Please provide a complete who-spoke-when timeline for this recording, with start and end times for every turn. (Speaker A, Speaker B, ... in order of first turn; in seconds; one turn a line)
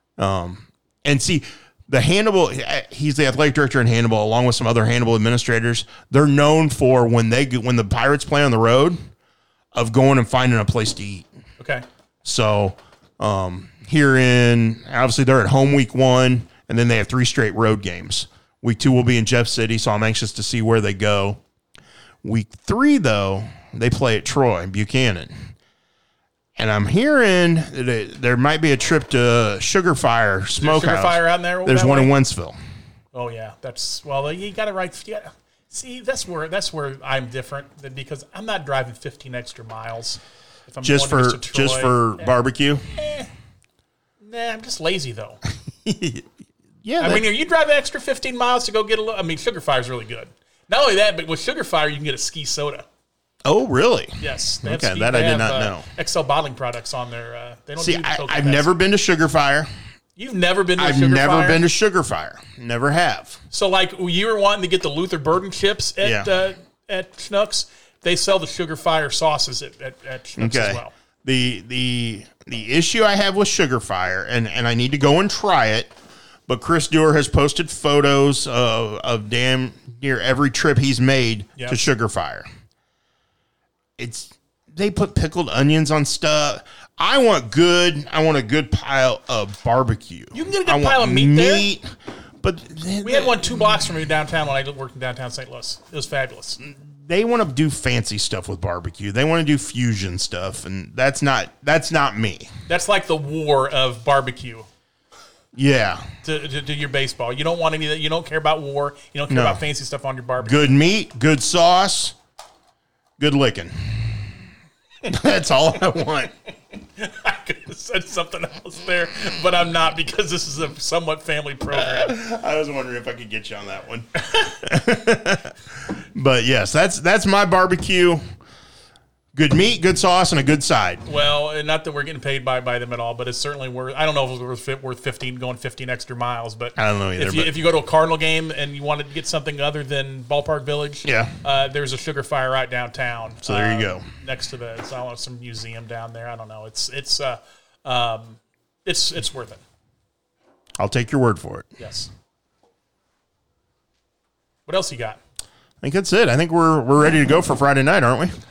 Speaker A: 0.2-9.0
Speaker A: 9.7-11.3
Speaker B: 11.6-11.8
Speaker A: 12.2-21.4
Speaker A: 22.2-25.3
Speaker A: 26.6-32.6
Speaker B: 30.6-32.1
Speaker B: 33.1-42.3
Speaker A: 40.8-42.9
Speaker B: 42.9-43.3
Speaker B: 44.2-45.4
Speaker A: 45.8-46.3
Speaker A: 46.8-47.2
Speaker B: 47.0-52.9
Speaker A: 53.4-55.9
Speaker B: 54.2-58.7
Speaker A: 57.8-59.7
Speaker B: 60.2-61.6
Speaker A: 60.8-63.4
Speaker B: 63.5-70.9
Speaker A: 66.0-66.3
Speaker A: 70.4-75.9
Speaker A: 76.5-82.5
Speaker A: 84.0-91.8
Speaker B: 90.3-91.7
Speaker A: 92.4-93.5
Speaker B: 93.0-96.6
Speaker A: 96.6-102.5
Speaker B: 102.7-104.7
Speaker A: 105.5-106.1
Speaker B: 106.2-110.7
Speaker A: 109.3-109.6
Speaker A: 110.4-112.1
Speaker A: 113.2-114.3
Speaker A: 115.0-116.3
Speaker B: 117.0-122.2
Speaker A: 121.7-125.6
Speaker A: 126.1-128.2
Speaker A: 129.3-131.0
Speaker B: 131.1-149.6
Speaker A: 136.8-137.5
Speaker A: 141.0-141.3
Speaker A: 143.4-144.0
Speaker A: 150.8-151.8
Speaker B: 151.8-152.1
Speaker B: 154.7-155.2
Speaker A: 155.8-158.3